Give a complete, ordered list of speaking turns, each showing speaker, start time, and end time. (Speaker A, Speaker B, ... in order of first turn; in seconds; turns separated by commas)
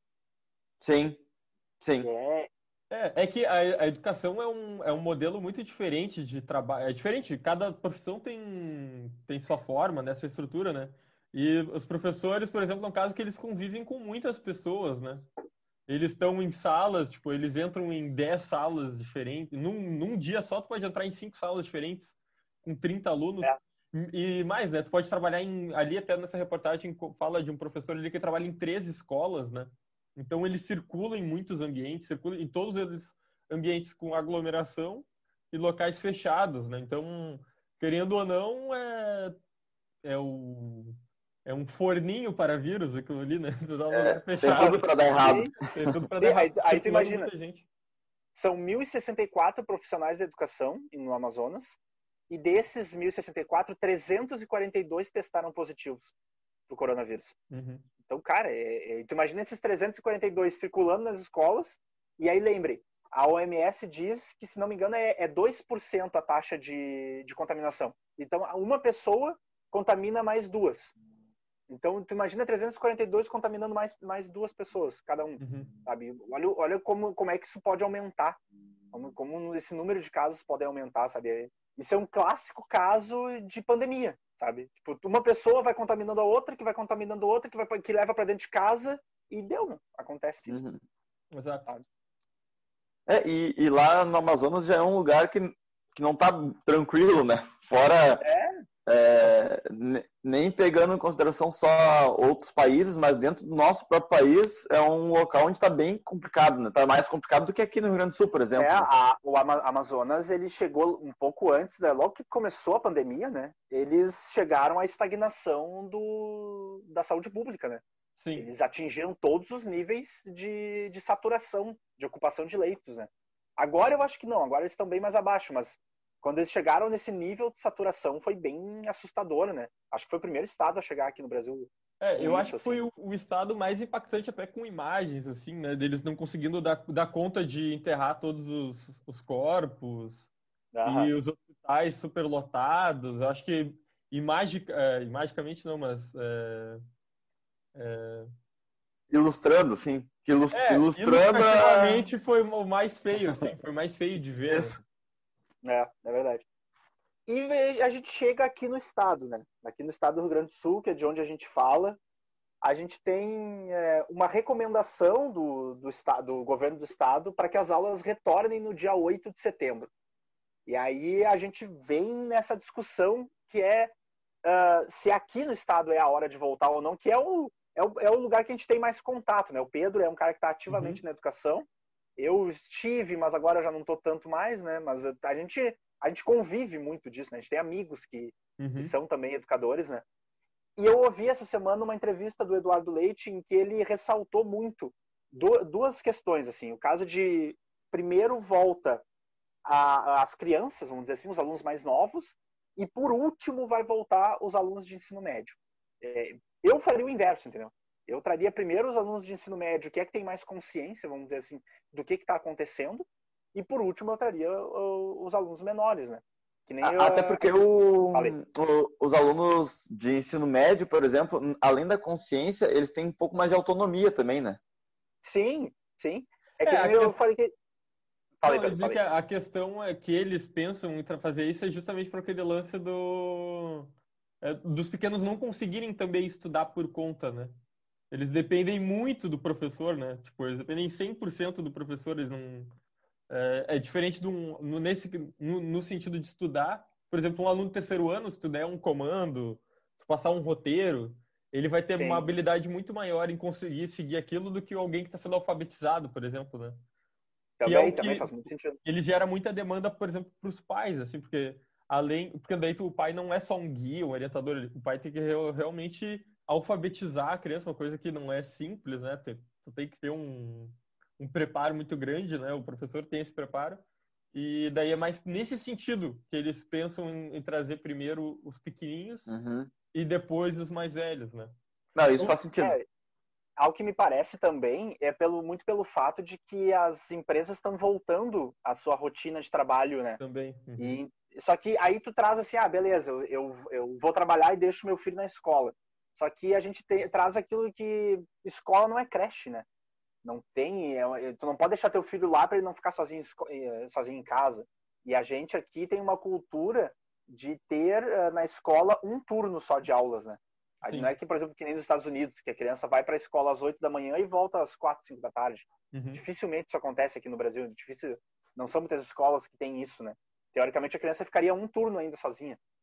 Speaker A: 0.8-1.2, Speaker A: 1.8-2.1, Speaker B: 2.0-2.5, Speaker C: 2.9-15.3, Speaker C: 15.9-39.4, Speaker C: 40.0-47.6, Speaker A: 43.9-45.9, Speaker B: 44.4-45.5, Speaker B: 46.2-47.3, Speaker B: 48.3-51.8, Speaker B: 52.3-56.1, Speaker B: 56.7-57.3, Speaker C: 57.5-57.9, Speaker B: 58.0-70.9, Speaker B: 71.7-78.4, Speaker C: 75.4-75.7, Speaker B: 78.9-90.6, Speaker A: 90.5-90.8, Speaker C: 91.3-91.7, Speaker A: 93.1-98.3, Speaker B: 98.2-98.5, Speaker A: 98.8-108.9, Speaker B: 108.6-117.8, Speaker C: 118.2-118.5, Speaker B: 118.3-132.8, Speaker C: 132.0-140.3, Speaker B: 140.7-141.1, Speaker C: 140.8-146.8, Speaker C: 147.7-148.3, Speaker A: 149.1-152.1, Speaker C: 150.5-154.8, Speaker A: 154.5-154.8, Speaker B: 155.6-156.4, Speaker B: 157.3-162.0, Speaker B: 162.6-169.9, Speaker B: 170.7-173.9, Speaker B: 174.4-181.6, Speaker C: 180.7-181.0, Speaker B: 182.2-190.0, Speaker C: 188.6-188.9, Speaker B: 190.8-199.0, Speaker B: 199.6-217.5, Speaker A: 216.8-224.6, Speaker B: 225.2-227.5, Speaker C: 226.6-227.2, Speaker B: 228.4-229.0, Speaker C: 228.4-237.5, Speaker C: 238.1-242.7, Speaker C: 243.3-256.8, Speaker B: 251.9-252.3, Speaker B: 257.6-258.8, Speaker C: 257.6-258.3, Speaker C: 258.8-279.3, Speaker A: 279.3-279.7, Speaker C: 279.9-281.5, Speaker A: 281.9-282.8, Speaker B: 282.2-282.8, Speaker B: 283.6-290.2, Speaker C: 290.2-290.9, Speaker B: 290.8-299.6, Speaker B: 300.2-322.6, Speaker C: 310.8-311.1, Speaker C: 315.9-316.2